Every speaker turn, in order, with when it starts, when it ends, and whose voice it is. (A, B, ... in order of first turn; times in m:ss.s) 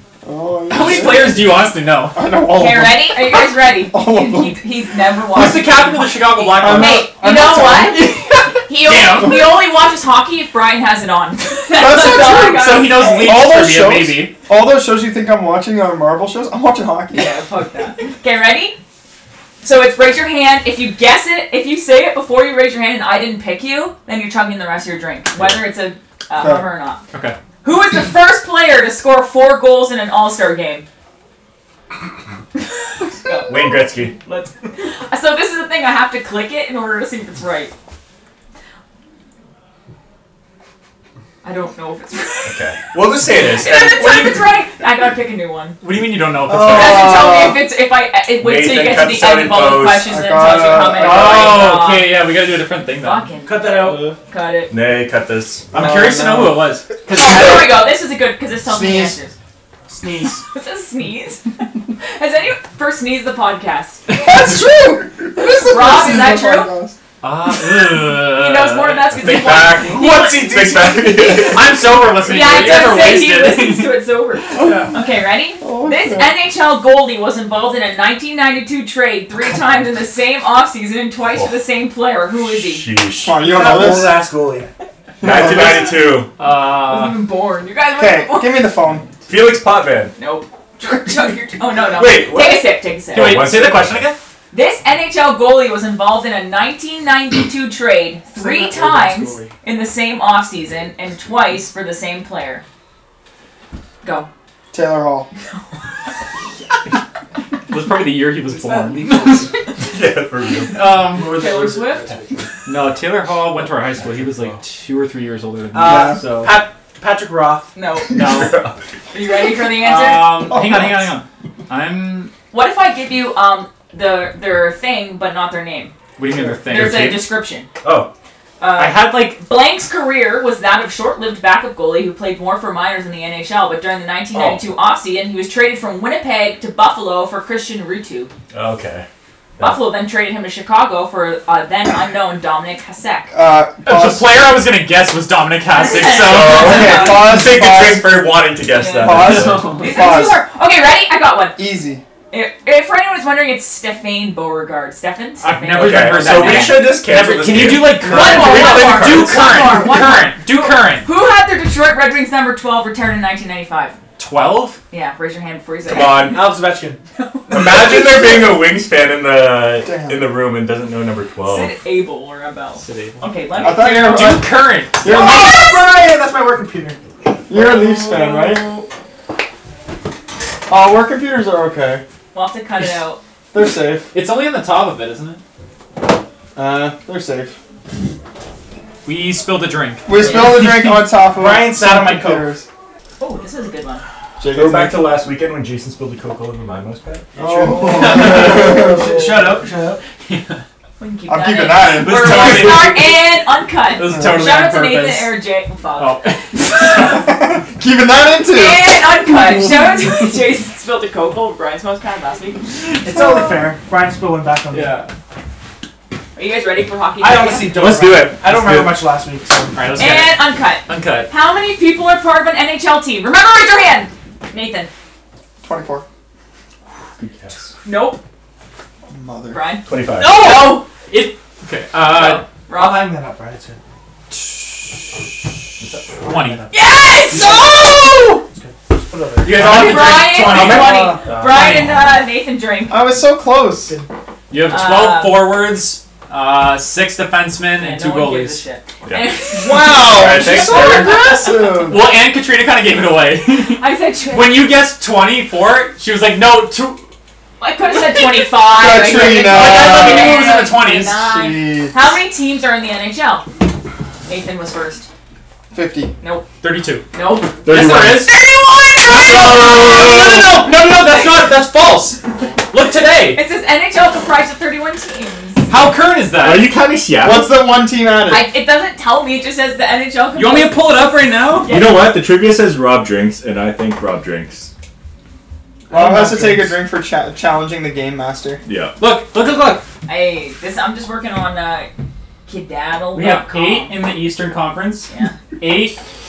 0:00.2-0:04.6 A
0:00.7-0:02.2 B
0:02.5-0:13.3 C
0:05.3-0:07.1 B
0:06.5-0:08.4 A
0:08.8-0:09.4 B
0:11.7-0:17.4 A
0:12.2-0:14.3 B
0:17.1-0:18.8 C
0:19.6-0:27.0 C
0:26.4-0:26.6 A
0:27.1-0:27.4 B
0:27.6-0:30.8 C
0:33.2-0:37.7 C
0:33.5-0:34.1 D
0:41.4-0:42.6 C
0:42.5-0:44.4 D
0:43.2-0:45.8 C
0:45.8-0:47.3 B
0:46.4-0:47.6 A
0:46.6-0:52.2 C
0:48.4-0:50.1 D
0:50.0-0:51.7 A
0:50.7-0:53.3 B
0:53.0-0:54.7 C
0:53.4-0:54.2 E
0:54.7-0:55.7 D
0:55.7-0:56.7 A
0:55.7-0:57.7 B
0:57.1-0:59.3 C
0:58.6-0:59.2 A
0:59.9-1:00.4 E
1:00.5-1:01.5 C
1:02.0-1:04.0 C
1:04.1-1:07.0 A
1:05.4-1:06.7 C
1:07.2-1:09.7 B
1:08.3-1:10.6 C
1:09.2-1:11.7 D
1:09.9-1:11.6 E
1:11.5-1:14.0 B
1:12.2-1:22.9 C
1:14.6-1:14.9 A
1:14.6-1:14.9 B
1:15.6-1:16.3 A
1:21.2-1:21.5 D
1:22.5-1:23.4 D
1:23.2-1:24.2 A
1:23.4-1:24.7 E
1:25.2-1:26.0 A
1:25.2-1:26.3 D
1:26.4-1:27.2 B
1:26.7-1:28.7 C
1:28.0-1:29.1 A
1:29.2-1:30.1 D
1:30.2-1:33.4 C
1:31.8-1:34.1 D
1:33.1-1:34.2 B
1:34.5-1:42.6 C
1:38.3-1:39.5 E
1:44.0-1:44.3 C
1:44.7-1:45.3 A
1:47.7-1:49.5 B
1:48.5-1:49.4 E
1:49.8-1:51.0 D
1:50.7-1:51.4 B
1:51.1-1:52.2 E
1:51.2-1:52.1 C
1:52.6-1:56.6 B
1:55.7-1:57.7 E
1:55.8-1:56.2 A
1:57.7-1:58.4 C
1:58.1-1:58.6 B
1:58.1-1:58.8 D
1:59.1-2:00.6 C
1:59.7-2:02.3 B
2:00.5-2:01.1 A
2:02.5-2:05.9 C
2:06.2-2:07.1 B
2:06.6-2:08.1 D
2:06.7-2:07.7 C
2:08.6-2:18.3 C
2:08.7-2:09.4 B
2:14.3-2:14.6 B
2:18.5-2:19.0 D
2:19.6-2:23.3 C
2:23.3-2:24.3 A
2:23.8-2:27.0 B
2:25.7-2:27.4 C
2:26.0-2:29.8 D
2:26.6-2:28.2 A
2:28.7-2:31.6 C
2:29.0-2:30.4 A
2:29.4-2:29.7 B
2:31.6-2:32.0 A
2:32.3-2:36.8 C
2:35.4-2:41.0 B
2:35.6-2:39.4 D
2:38.0-2:44.0 C
2:44.2-2:44.8 B
2:44.9-2:46.4 C
2:45.9-2:46.4 D
2:46.2-2:47.0 E
2:47.2-2:48.4 C
2:47.5-2:51.7 D
2:49.8-2:50.3 A
2:51.4-2:54.4 C
2:52.8-2:55.2 B
2:53.6-2:54.5 A
2:55.0-2:55.6 A
2:55.0-2:57.0 E
2:55.1-2:55.6 C
2:57.5-2:58.6 A
2:58.4-2:58.8 C
3:00.7-3:02.0 A
3:02.3-3:03.2 C
3:03.5-3:04.1 A
3:04.1-3:05.4 B
3:06.6-3:07.6 A
3:09.0-3:10.9 B
3:10.0-3:12.7 A
3:10.2-3:10.7 C
3:11.3-3:12.5 E
3:13.2-3:14.0 C
3:14.4-3:15.1 A
3:14.5-3:18.7 D
3:17.4-3:19.5 A
3:17.4-3:20.0 E
3:20.2-3:20.6 B
3:21.0-3:27.2 C
3:21.3-3:22.8 A
3:21.9-3:23.1 B
3:22.1-3:23.0 D
3:23.9-3:25.4 B
3:24.0-3:24.5 A
3:26.0-3:27.3 B
3:27.0-3:30.1 A
3:28.5-3:32.7 C
3:33.0-3:34.9 E
3:33.1-3:33.6 A
3:34.7-3:35.1 B
3:36.4-3:37.9 C
3:37.2-3:39.8 E
3:37.7-3:39.0 D
3:39.7-3:41.3 B
3:40.0-3:44.9 C
3:45.6-3:46.0 A
3:47.2-3:47.7 D
3:47.8-3:48.2 C
3:49.1-3:49.6 A
3:49.5-3:50.9 C
3:49.8-3:50.5 D
3:50.2-3:52.4 B
3:52.0-3:53.1 C
3:52.7-3:53.8 E
3:54.3-3:54.9 B
3:55.8-3:56.2 D
3:56.2-4:00.5 E
3:56.2-3:56.6 B
3:56.7-3:58.3 C
3:57.3-3:57.6 B
3:59.4-4:02.0 B
3:59.6-4:03.1 C
4:00.5-4:02.0 D
4:00.6-4:01.2 A
4:02.9-4:04.0 A
4:04.5-4:08.6 B
4:04.6-4:05.6 C
4:07.7-4:11.7 C
4:09.0-4:09.3 D
4:09.5-4:12.0 A
4:09.9-4:11.2 D
4:10.4-4:17.1 B
4:13.8-4:14.7 C
4:17.6-4:23.4 C
4:18.7-4:22.1 A
4:19.4-4:21.2 B
4:24.3-4:25.1 C
4:25.7-4:26.1 A
4:26.6-4:27.0 B
4:27.1-4:27.6 C
4:27.6-4:28.4 D
4:27.6-4:28.5 B
4:28.3-4:31.5 C
4:29.0-4:33.4 B
4:29.1-4:30.1 D
4:33.3-4:35.7 C
4:35.7-4:36.7 B
4:36.4-4:37.5 D
4:37.2-4:38.5 A
4:38.3-4:42.0 C
4:40.3-4:41.7 B
4:41.6-4:44.7 D
4:45.9-4:46.7 E
4:45.9-4:48.6 A
4:48.6-4:49.0 D
4:49.0-4:49.8 B
4:50.0-4:51.9 C
4:52.5-4:53.9 C
4:53.1-4:56.0 B
4:55.1-4:55.3 C